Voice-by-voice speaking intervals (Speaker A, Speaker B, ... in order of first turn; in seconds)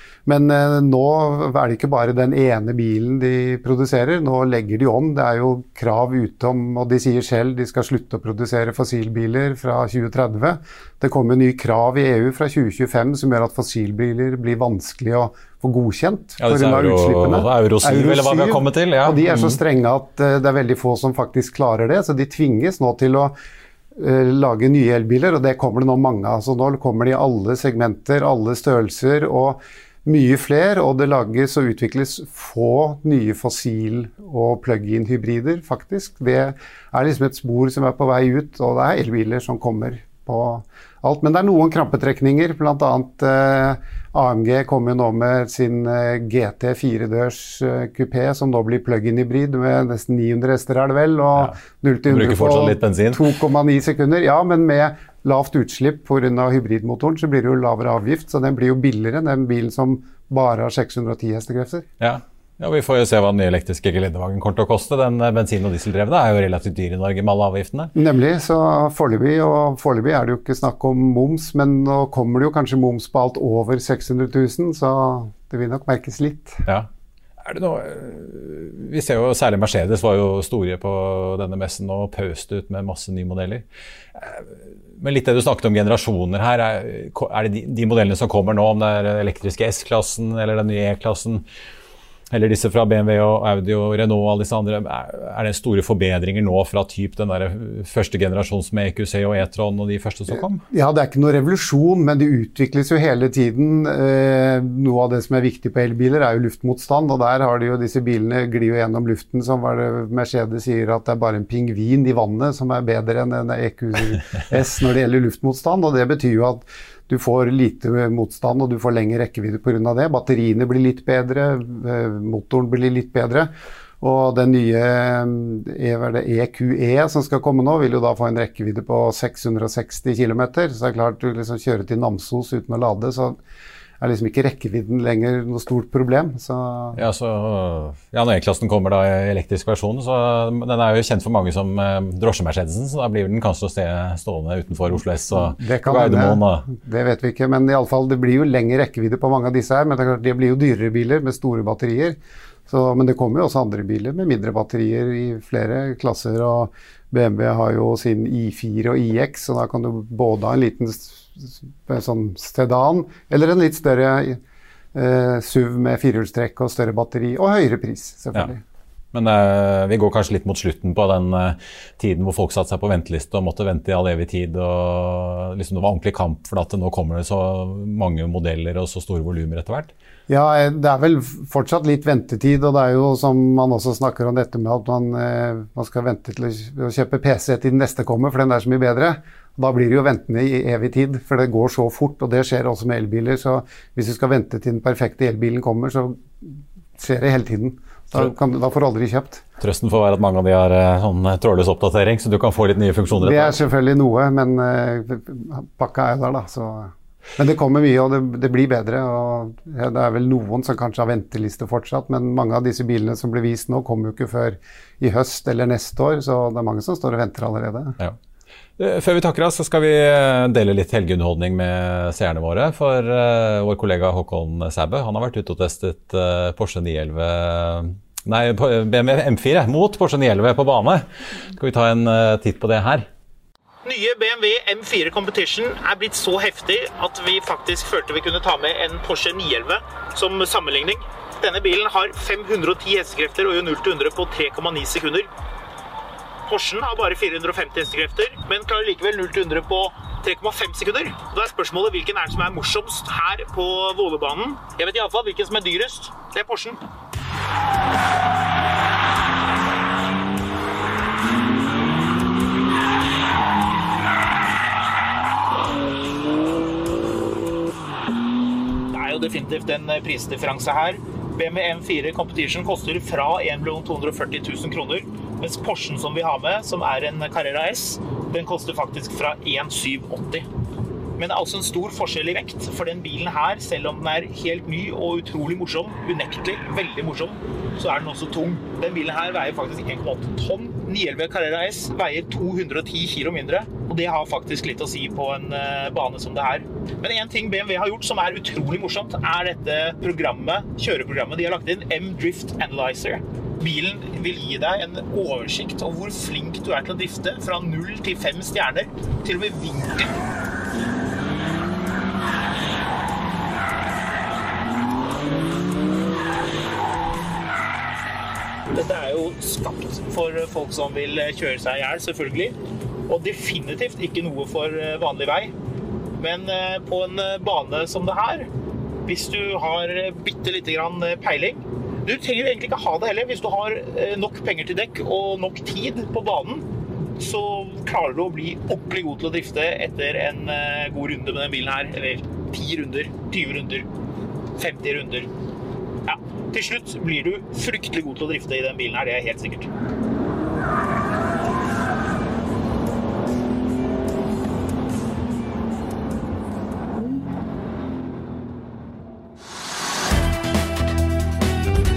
Speaker A: 0.3-23.4, 24.0-61.9, 68.0-76.7, 100.7-123.5, 124.0-133.4, 134.0-137.0, 145.4-152.2, 152.7-164.4, 164.9-168.6, 180.3-199.4, 203.2-218.0
Speaker B: 16.4-19.6, 52.1-53.3, 62.0-67.9, 77.4-91.5, 92.3-100.6, 136.9-146.7, 169.1-179.9, 199.6-203.6, 218.8-233.1
Speaker C: 233.8-245.3, 246.5-256.8, 268.9-280.5, 281.2-310.2, 318.7-322.6, 323.1-325.5, 326.2-328.5, 329.1-343.9, 344.6-345.3, 346.1-349.7